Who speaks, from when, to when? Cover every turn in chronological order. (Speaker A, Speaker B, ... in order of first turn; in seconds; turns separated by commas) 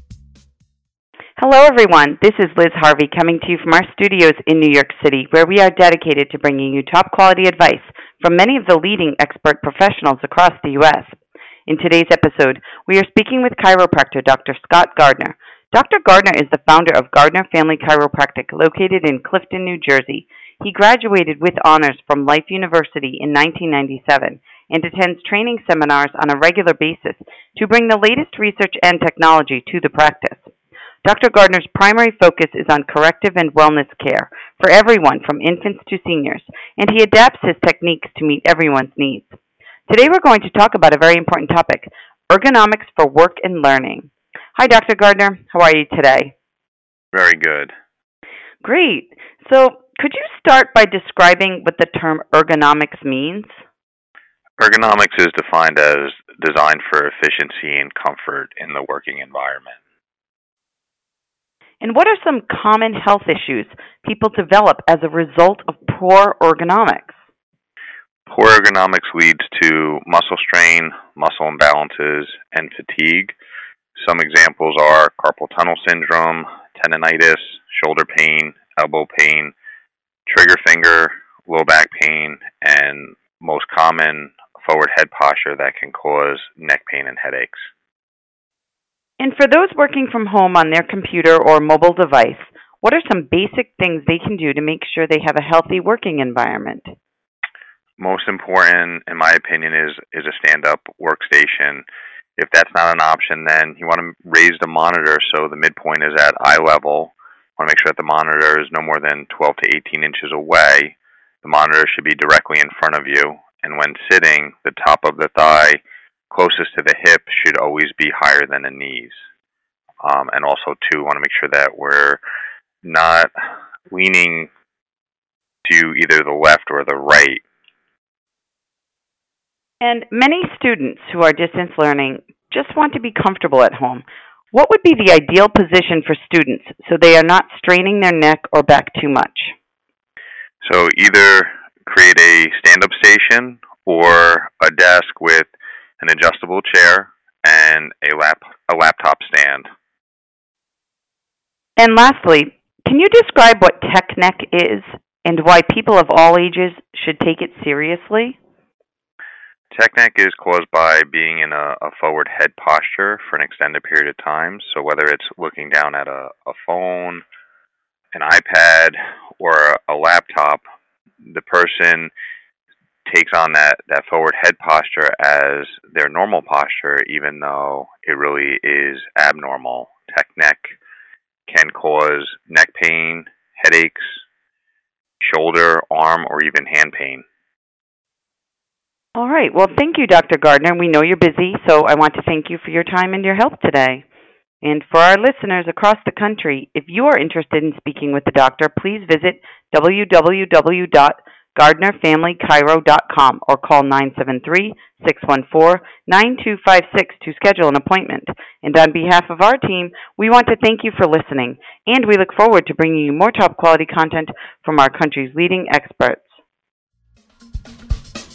Speaker A: 1.4-11.2, Speaker A: 11.7-30.5, Speaker A: 31.0-39.4, Speaker A: 39.9-46.3, Speaker B: 47.1-47.7, Speaker A: 48.6-53.5, Speaker B: 54.6-59.8, Speaker A: 61.8-67.2, Speaker B: 68.3-73.3, Speaker B: 74.0-79.5, Speaker B: 80.3-87.7, Speaker A: 89.2-96.9, Speaker B: 98.0-101.9, Speaker B: 102.4-119.2, Speaker B: 120.0-122.2, Speaker B: 122.8-123.3, Speaker B: 123.9-124.5, Speaker B: 125.7-127.4, Speaker A: 129.8-139.6, Speaker B: 140.6-149.7, Speaker A: 151.8-158.4, Speaker B: 159.7-167.2, Speaker B: 168.1-170.6, Speaker B: 171.2-172.1, Speaker B: 173.1-180.8, Speaker B: 181.5-184.2, Speaker B: 185.2-187.2, Speaker A: 189.2-194.1, Speaker A: 194.6-216.4